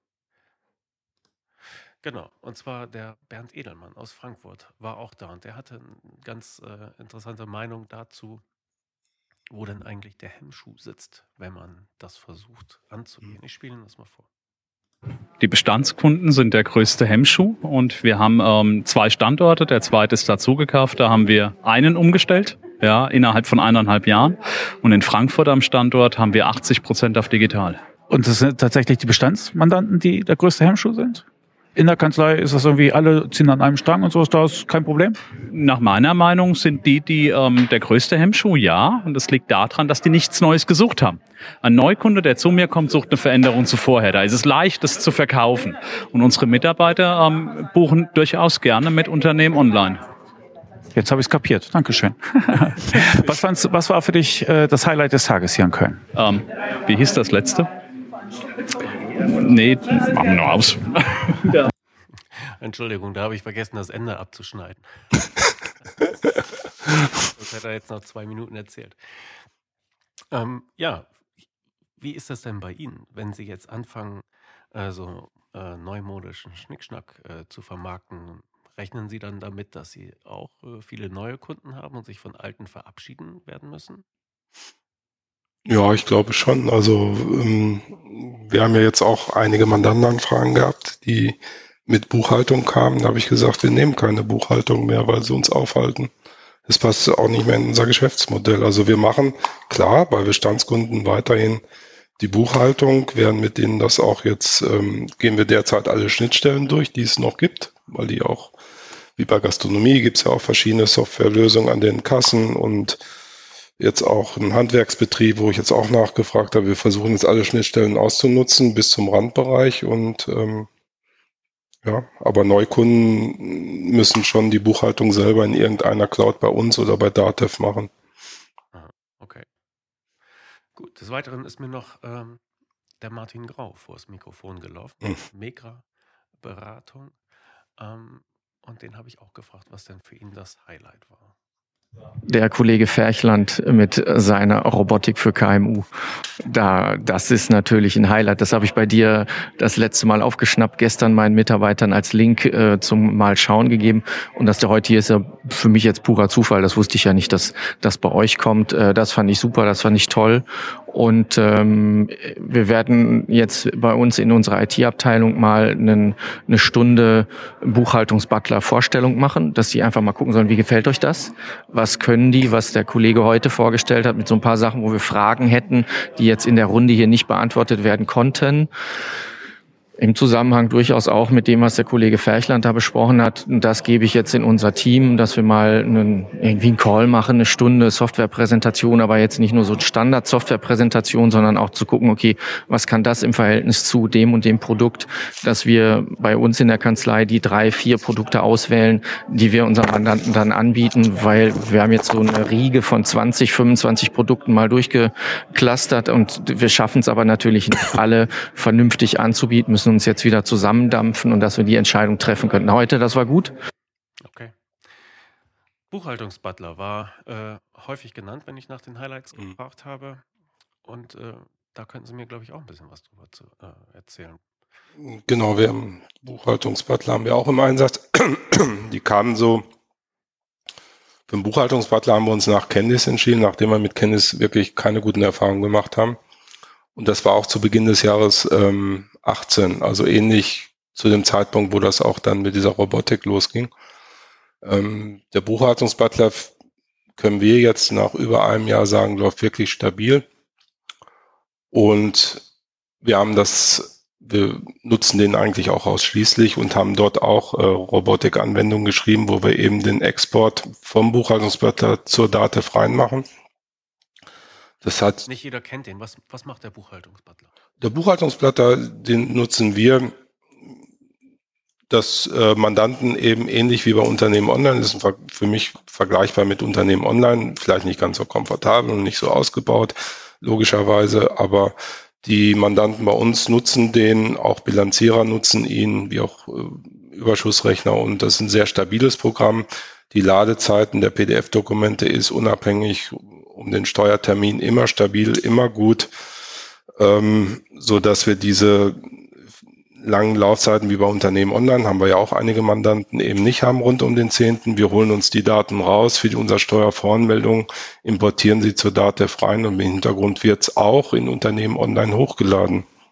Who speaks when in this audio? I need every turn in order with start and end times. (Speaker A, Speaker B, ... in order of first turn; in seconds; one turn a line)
Speaker A: 2.0-8.4
Speaker A: 9.5-14.3
Speaker B: 15.4-27.8
Speaker C: 28.1-31.2
Speaker C: 31.8-35.2
Speaker B: 35.5-50.0
Speaker C: 51.0-56.0
Speaker B: 56.1-57.7
Speaker B: 59.2-61.7
Speaker A: 62.4-64.9
Speaker A: 67.2-69.4
Speaker A: 70.3-71.2
Speaker A: 72.0-84.0
Speaker D: 85.7-96.1
Speaker D: 96.7-101.6
Speaker D: 102.2-108.5
Speaker D: 109.2-113.0
Speaker D: 113.8-120.7
Speaker D: 121.8-127.9
Speaker A: 128.7-129.5
Speaker A: 130.8-132.4
Speaker A: 133.0-135.8
Speaker A: 136.4-137.2
Speaker A: 137.8-141.3
Speaker E: 142.3-145.9
Speaker E: 146.4-178.7
Speaker E: 180.0-213.5
Speaker A: 214.2-214.5
Speaker A: 215.9-220.2
Speaker A: 220.8-224.4
Speaker D: 225.0-229.7
Speaker D: 231.3-236.2
Speaker D: 237.0-243.7
Speaker D: 244.6-246.5
Speaker D: 247.2-250.3
Speaker D: 251.7-252.4
Speaker D: 253.0-263.3
Speaker D: 264.8-265.2
Speaker A: 265.2-267.5
Speaker D: 267.8-270.1
Speaker D: 271.9-296.1
Speaker D: 297.0-299.3
Speaker D: 300.0-312.9